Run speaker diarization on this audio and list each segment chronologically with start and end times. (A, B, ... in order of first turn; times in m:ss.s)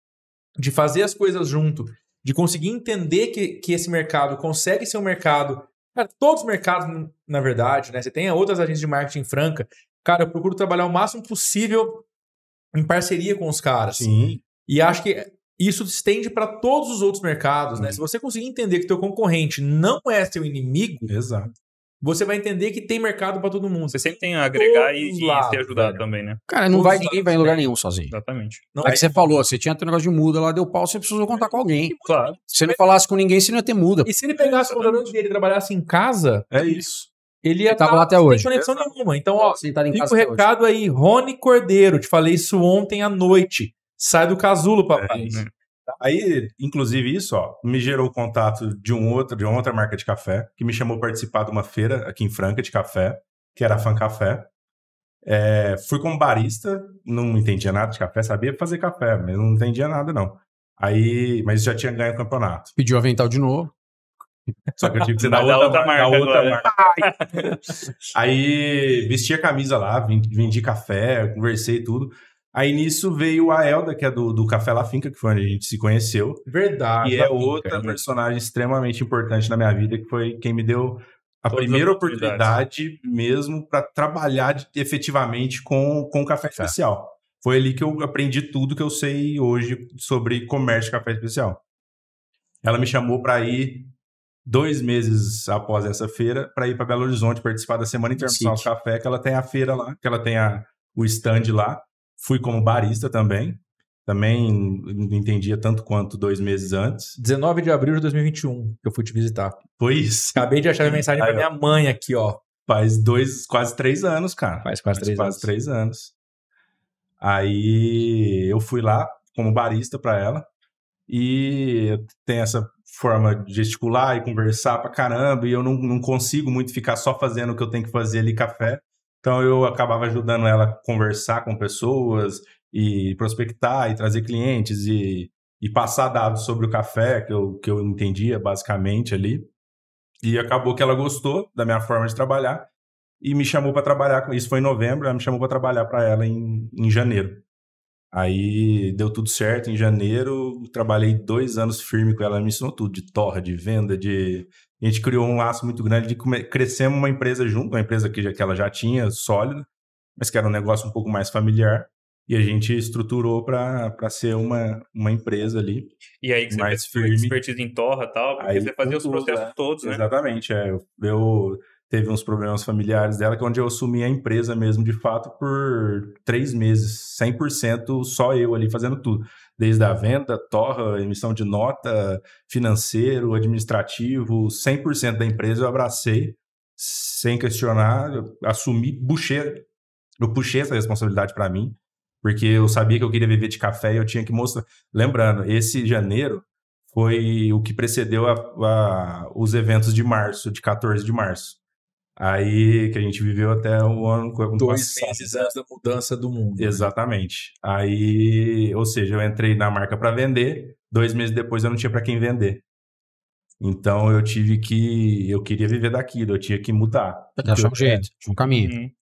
0:00.6-0:12.0 A
0:12.7-0:14.1 A
0:13.9-0:14.4 B
0:14.6-0:21.1 A
0:21.1-0:21.5 B
0:22.0-0:26.0 A
0:23.9-0:26.4 C
0:26.5-0:28.1 D
0:26.7-0:27.6 A
0:28.1-0:28.7 C
0:28.7-0:29.4 A
0:28.8-0:32.0 D
0:31.8-0:32.8 A
0:32.0-0:32.4 C
0:32.5-0:35.0 D
0:34.0-0:36.5 A
0:36.5-0:37.0 B
0:36.6-0:37.1 D
0:37.4-0:45.9 A
0:37.7-0:38.8 D
0:39.4-0:40.5 D
0:45.0-0:45.4 B
0:46.0-0:54.5 B
0:55.2-1:02.7 B
1:02.8-1:03.7 D
1:04.7-1:16.4 B
1:05.2-1:07.5 C
1:16.4-1:17.8 A
1:17.0-1:31.6 B
1:17.8-1:18.0 C
1:21.5-1:22.6 C
1:32.6-1:33.9 B
1:34.4-1:47.2 B
1:38.2-1:38.7 D
1:47.2-1:49.6 A
1:49.8-1:51.5 B
1:50.3-1:52.4 A
1:52.6-1:56.1 B
1:54.6-1:55.5 A
1:57.2-2:00.5 B
2:01.1-2:19.5 B
2:20.2-2:22.7 B
2:23.2-2:27.4 B
2:28.1-2:45.9 B
2:46.2-2:50.0 C
2:46.5-2:47.4 B
2:48.4-3:09.6 B
3:10.2-3:21.6 B
3:22.2-3:25.3 B
3:24.6-3:26.9 A
3:26.6-3:32.6 B
3:33.6-3:38.4 B
3:37.4-3:38.7 D
3:38.6-3:38.9 C